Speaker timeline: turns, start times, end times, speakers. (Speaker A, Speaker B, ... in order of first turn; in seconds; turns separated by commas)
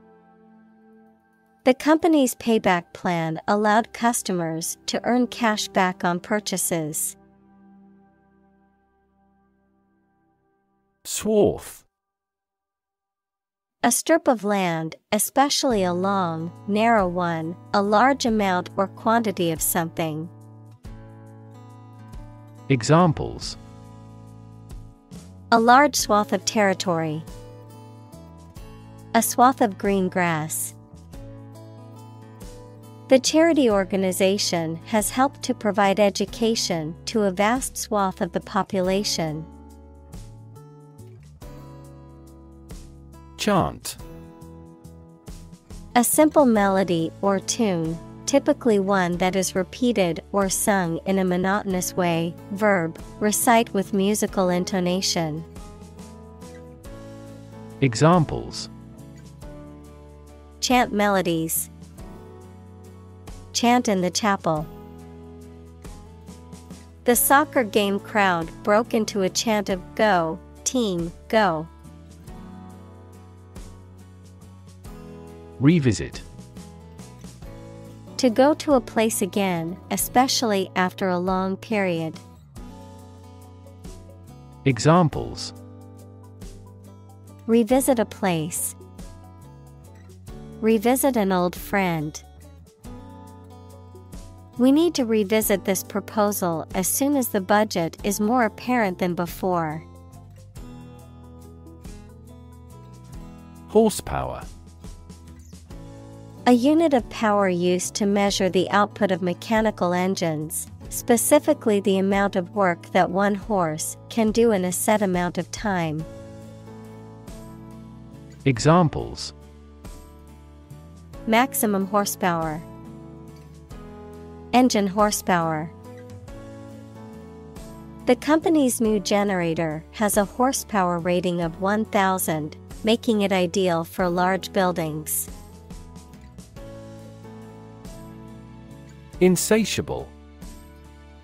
Speaker A: 1.6-7.2, Speaker B: 11.0-11.8, Speaker A: 13.8-20.3, Speaker B: 22.7-23.6, Speaker A: 25.5-27.3, Speaker A: 29.1-30.7, Speaker A: 33.1-39.5, Speaker B: 43.4-44.0, Speaker A: 45.9-55.5, Speaker B: 57.8-58.7, Speaker A: 60.6-61.7, Speaker A: 63.5-64.7, Speaker A: 67.0-71.7, Speaker B: 75.6-76.2, Speaker A: 78.2-82.2, Speaker B: 84.6-85.5, Speaker A: 87.5-88.8, Speaker A: 90.6-92.2, Speaker A: 94.6-99.9, Speaker B: 103.7-104.5, Speaker A: 106.5-116.1, Speaker B: 118.4-119.3, Speaker A: 121.3-122.7, Speaker A: 124.5-125.7, Speaker A: 128.1-135.3, Speaker B: 139.2-140.1